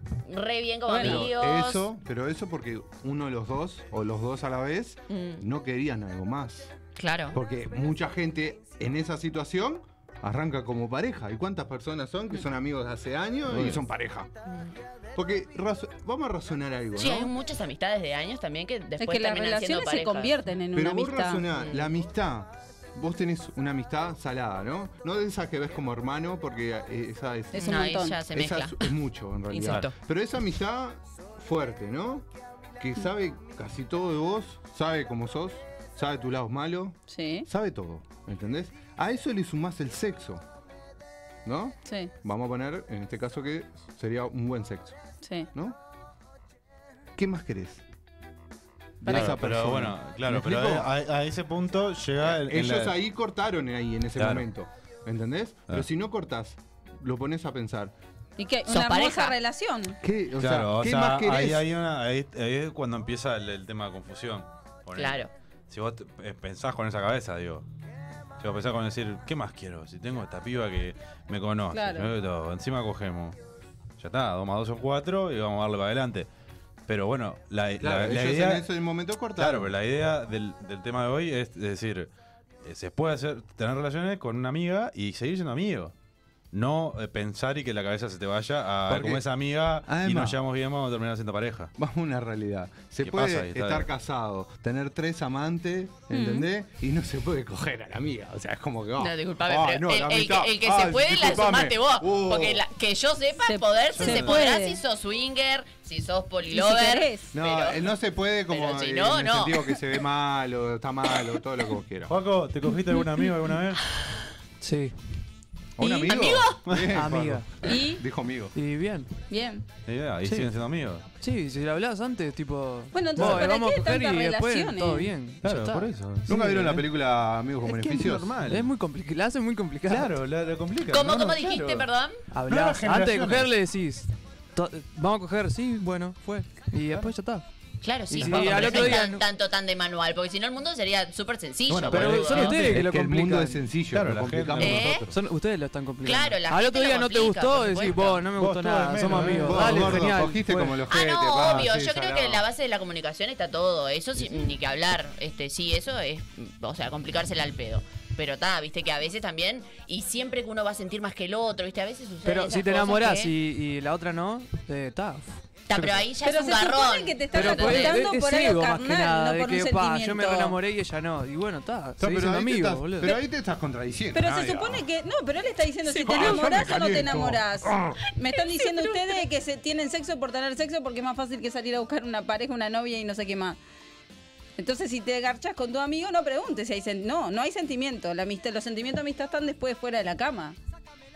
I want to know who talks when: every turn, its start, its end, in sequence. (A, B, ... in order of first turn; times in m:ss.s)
0:00.2-0:01.9 A
0:00.9-0:01.3 B
0:01.0-0:06.7 C
0:05.1-0:05.4 A
0:07.0-0:07.4 A
0:07.3-0:14.3 C
0:13.5-0:13.8 D
0:14.5-0:14.8 A
0:15.2-0:17.3 C
0:17.0-0:20.4 A
0:19.0-0:21.4 B
0:20.7-0:32.3 C
0:21.6-0:21.9 A
0:27.5-0:28.2 B
0:27.6-0:29.0 A
0:29.5-0:29.9 A
0:32.8-0:40.4 C
0:37.1-0:37.5 B
0:41.4-0:45.0 C
0:41.9-0:42.1 B
0:45.2-0:45.5 B
0:47.2-0:47.8 C
0:49.0-0:50.9 C
0:49.0-0:49.4 B
0:49.1-0:52.9 D
0:52.2-0:57.9 C
0:54.2-0:54.4 D
0:58.4-1:00.0 B
0:58.7-0:59.4 A
1:00.0-1:01.7 C
1:00.4-1:07.6 D
1:05.0-1:05.3 A
1:08.4-1:13.4 D
1:11.7-1:12.1 B
1:14.0-1:16.3 D
1:16.9-1:18.7 D
1:17.8-1:19.7 C
1:19.4-1:22.1 D
1:22.6-1:25.9 D
1:26.5-1:31.7 D
1:28.9-1:29.2 C
1:29.8-1:30.4 C
1:31.8-1:42.6 C
1:33.0-1:33.9 D
1:36.1-1:36.5 B
1:39.0-1:47.9 A
1:43.5-1:44.8 B
1:44.0-1:44.4 D
1:46.5-1:47.3 B
1:47.3-1:52.1 C
1:48.5-1:49.9 A
1:52.1-1:53.8 D
1:54.6-1:55.0 E
1:55.8-1:58.6 C
1:55.8-1:56.1 B
1:56.1-1:56.6 A
1:56.7-1:57.0 D
1:56.9-1:57.5 E
1:57.6-1:58.0 B
1:58.6-1:59.1 E
1:59.3-1:59.6 B
1:59.9-2:01.0 D
2:00.2-2:00.5 E
2:01.2-2:05.9 E
2:02.9-2:05.1 B
2:05.4-2:06.9 D
2:06.3-2:08.4 C
2:07.7-2:08.7 D
2:08.4-2:10.1 E
2:09.9-2:11.9 D
2:10.9-2:12.2 A
2:12.3-2:17.5 E
2:12.5-2:13.5 D
2:17.8-2:22.6 A
2:18.1-2:19.2 E
2:18.2-2:19.1 D
2:21.7-2:22.8 D
2:21.9-2:23.6 E
2:22.6-2:25.2 C
2:23.9-2:25.0 D
2:24.6-2:25.1 A
2:25.0-2:30.8 E
2:26.0-2:28.2 A
2:28.4-2:30.1 D
2:29.3-2:32.4 C
2:30.9-2:43.3 A
2:42.2-2:45.6 E
2:45.7-2:48.0 A
2:46.2-2:50.6 B
2:47.3-2:53.2 E
2:52.0-2:54.8 C
2:54.1-3:03.6 B
2:55.9-2:56.6 E
2:56.1-2:58.0 C
3:04.6-3:10.6 B